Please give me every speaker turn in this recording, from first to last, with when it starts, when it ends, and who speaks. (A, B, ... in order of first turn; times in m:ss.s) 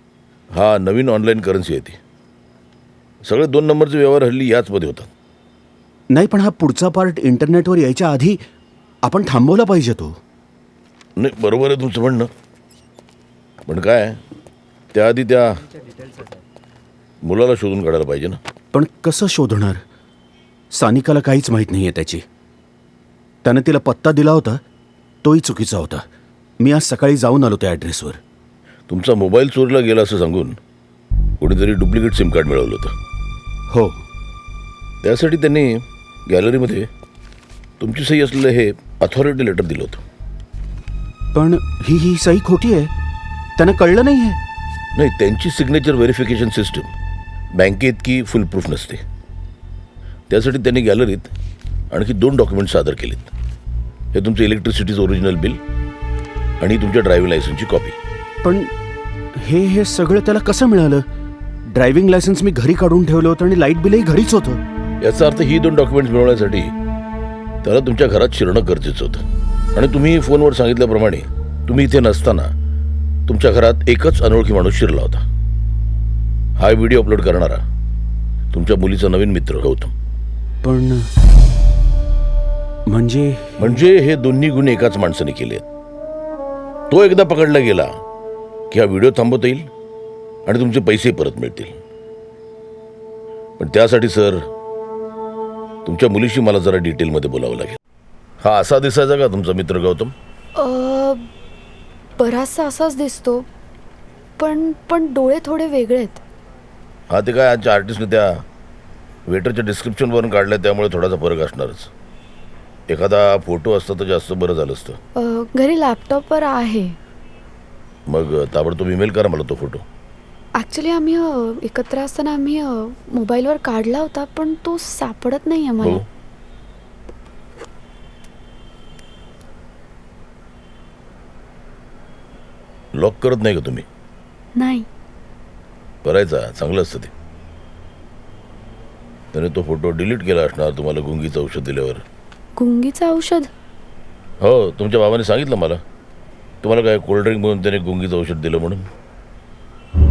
0:00.5-0:02.0 A
0:03.2-0:05.1 A
0:06.1-0:08.4 B
0:09.0-0:10.1 B
0:11.2-0:12.3 A
0:13.7-0:14.2 A
0:14.9-0:15.5 A
0:17.2-0:18.4 A
0:18.7-0:19.8 B
0:20.7-0:22.2 B
0:23.4-0:24.6 B
0:25.2-0:26.0 B
0:26.6-0:28.2 B
0:28.9-0:30.6 A
0:31.4-0:32.9 A
0:33.7-0:34.0 B
0:35.0-0:36.9 A
0:37.8-0:40.0 A
0:41.3-0:42.9 B
0:43.6-0:44.4 B
0:45.0-0:46.9 A
0:47.6-0:49.0 A
0:50.3-0:51.3 A
0:51.9-0:53.3 A
0:54.1-0:55.6 A
0:56.6-0:58.0 A
0:58.4-0:58.7 B
0:59.4-1:01.0 B
1:01.7-1:04.6 B
1:05.0-1:06.7 A
1:07.6-1:09.2 A
1:09.8-1:12.5 A
1:13.3-1:15.2 A
1:16.6-1:17.6 A
1:18.5-1:19.9 A
1:20.6-1:21.1 B
1:22.9-1:23.8 B
1:23.6-1:25.6 A
1:26.9-1:27.9 A
1:28.7-1:29.7 A
1:30.4-1:31.8 A
1:33.6-1:34.4 A
1:35.8-1:37.8 A
1:38.4-1:40.1 A
1:40.6-1:41.2 C
1:42.2-1:43.4 C
1:44.4-1:46.2 C
1:47.1-1:48.3 A
1:49.3-1:51.9 A
1:52.9-1:55.0 A
1:55.2-1:57.0 C
1:58.1-1:59.8 A
2:00.6-2:06.0 C
2:13.0-2:13.9 A
2:14.6-2:14.9 C
2:16.0-2:17.1 A
2:19.3-2:22.0 A
2:22.6-2:23.5 C
2:24.4-2:25.8 A
2:26.6-2:28.8 A